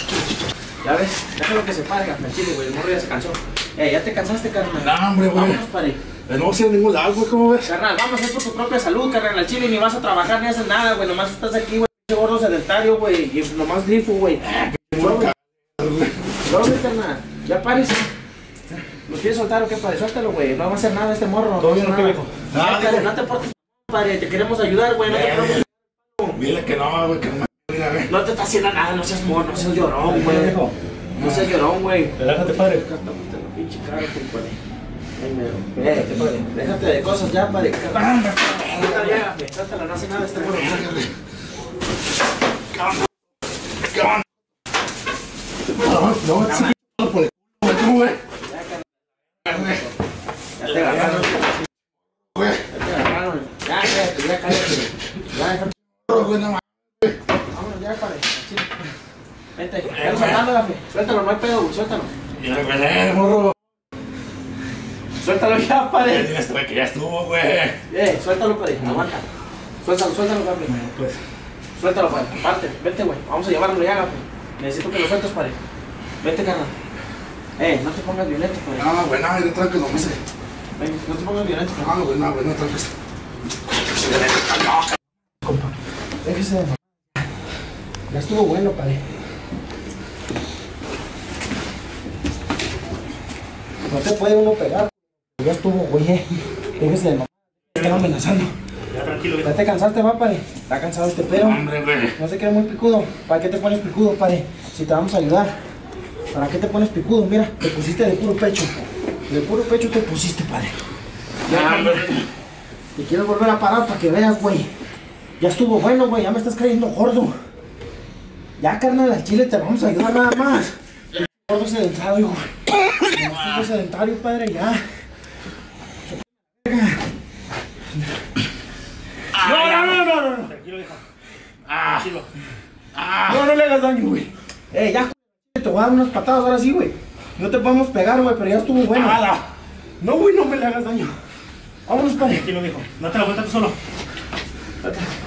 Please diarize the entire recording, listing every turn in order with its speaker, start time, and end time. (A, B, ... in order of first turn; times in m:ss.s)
0:00.8-0:06.0 A
0:04.7-0:05.6 B
0:06.3-0:07.7 B
0:07.6-0:15.3 A
0:14.8-0:16.3 B
0:16.4-0:18.1 A
0:19.0-0:25.6 A
0:21.6-0:22.5 C
0:22.5-0:23.0 B
0:25.1-0:25.6 B
0:26.3-0:28.1 B
0:28.0-0:30.6 A
0:30.0-0:30.7 C
0:31.2-0:34.6 A
0:32.2-0:32.8 C
0:35.2-0:41.0 A
0:37.9-0:39.2 B
0:40.4-0:41.1 B
0:42.8-0:43.0 B
0:43.9-0:44.2 B
0:45.7-0:48.2 B
0:46.4-0:46.7 A
0:48.4-0:48.8 A
0:49.5-0:49.9 A
0:49.5-0:49.8 B
0:50.6-0:51.6 A
0:50.7-0:51.3 B
0:52.7-0:56.3 A
0:56.1-0:57.1 B
0:57.5-0:58.7 A
0:59.6-1:02.1 A
0:59.9-1:00.4 B
1:02.4-1:03.5 B
1:05.2-1:06.3 A
1:06.0-1:07.8 B
1:07.9-1:09.2 A
1:09.8-1:10.8 A
1:10.7-1:11.2 C
1:11.8-1:15.6 A
1:16.2-1:16.7 A
1:17.6-1:18.9 A
1:18.8-1:20.2 B
1:20.8-1:21.9 A
1:21.8-1:22.9 B
1:24.1-1:24.8 B
1:25.4-1:25.7 A
1:26.2-1:26.8 A
1:28.1-1:29.0 A
1:33.9-1:38.5 A
1:37.8-1:38.0 C
1:38.9-1:39.6 C
1:39.4-1:41.6 A
1:41.3-1:42.2 B
1:42.2-1:45.6 A
1:46.3-1:50.8 A
1:51.4-1:52.2 A
1:51.5-1:52.2 B
1:53.0-1:54.7 A
1:55.4-1:57.4 A
1:58.6-2:02.5 A
2:03.1-2:04.8 A
2:06.6-2:07.0 A
2:09.4-2:09.7 B
2:09.4-2:10.5 A
2:09.5-2:11.0 C
2:11.7-2:12.0 B
2:11.9-2:12.3 C
2:12.9-2:13.4 B
2:13.2-2:19.2 A
2:18.9-2:19.4 B
2:20.0-2:21.1 A
2:21.9-2:22.5 A
2:22.2-2:23.8 C
2:24.8-2:25.1 A